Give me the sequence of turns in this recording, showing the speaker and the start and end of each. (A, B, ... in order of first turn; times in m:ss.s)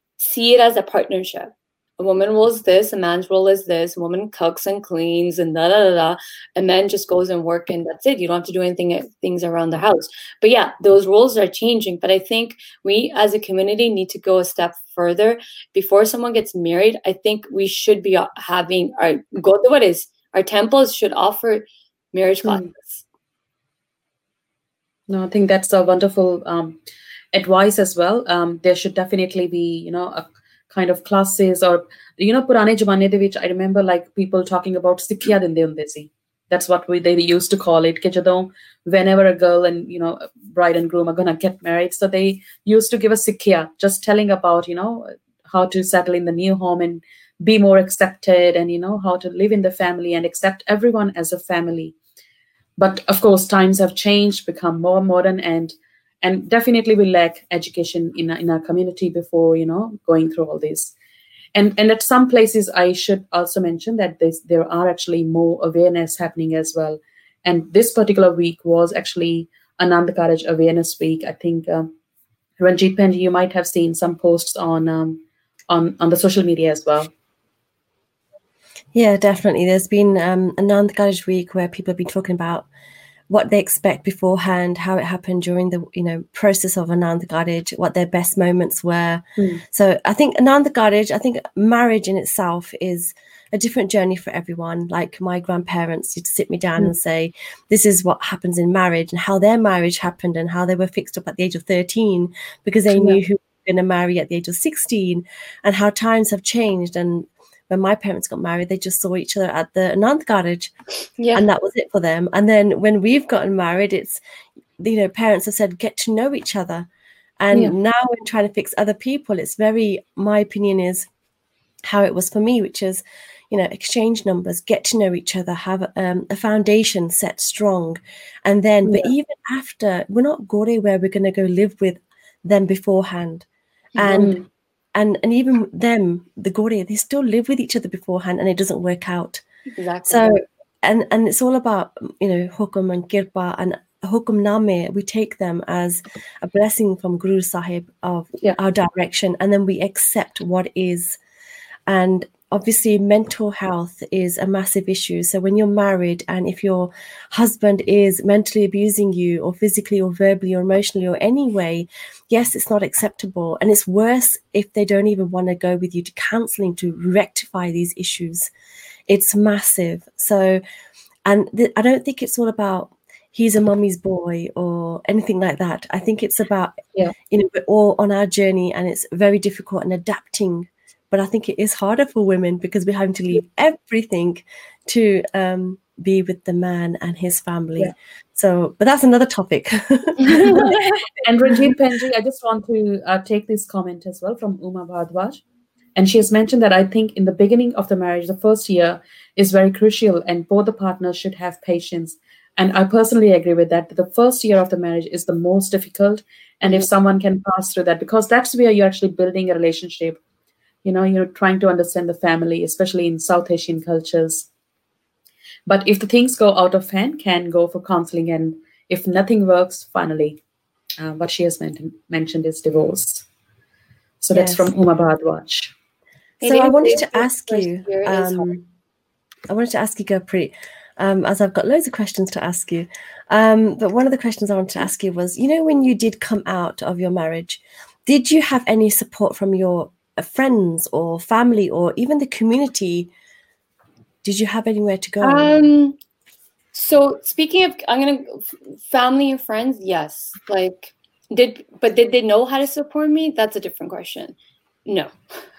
0:00.2-0:23.0 A
0:22.4-0:22.7 B
0:25.1-0:26.8 B
0:27.3-0:52.0 B
0:52.8-1:00.9 B
1:01.6-1:11.9 B
1:12.6-1:17.1 B
1:18.9-1:22.7 C
1:23.3-1:50.7 C
1:29.4-1:29.6 B
1:51.2-1:51.5 A
1:51.3-1:54.2 C
1:54.8-1:56.9 C
1:57.4-2:01.1 C
2:01.8-2:14.4 C
2:08.8-2:09.1 B
2:14.0-2:14.3 A
2:14.1-2:14.5 B
2:15.0-2:19.4 C
2:19.8-2:20.4 A
2:20.1-2:31.2 C
2:31.9-2:48.5 C
2:49.1-2:50.6 C
2:51.2-3:11.8 C
3:10.4-3:10.7 A
3:10.4-3:15.4 B
3:16.0-3:30.2 B
3:30.8-3:34.5 B
3:35.7-3:40.4 B
3:41.0-3:43.2 B
3:44.2-3:45.7 B
3:44.3-3:44.7 C
3:46.4-3:48.6 A
3:46.4-3:48.6 C
3:49.5-4:03.1 C
4:04.2-4:05.7 C
4:05.2-4:06.0 A
4:06.7-4:14.4 A
4:14.9-4:15.1 A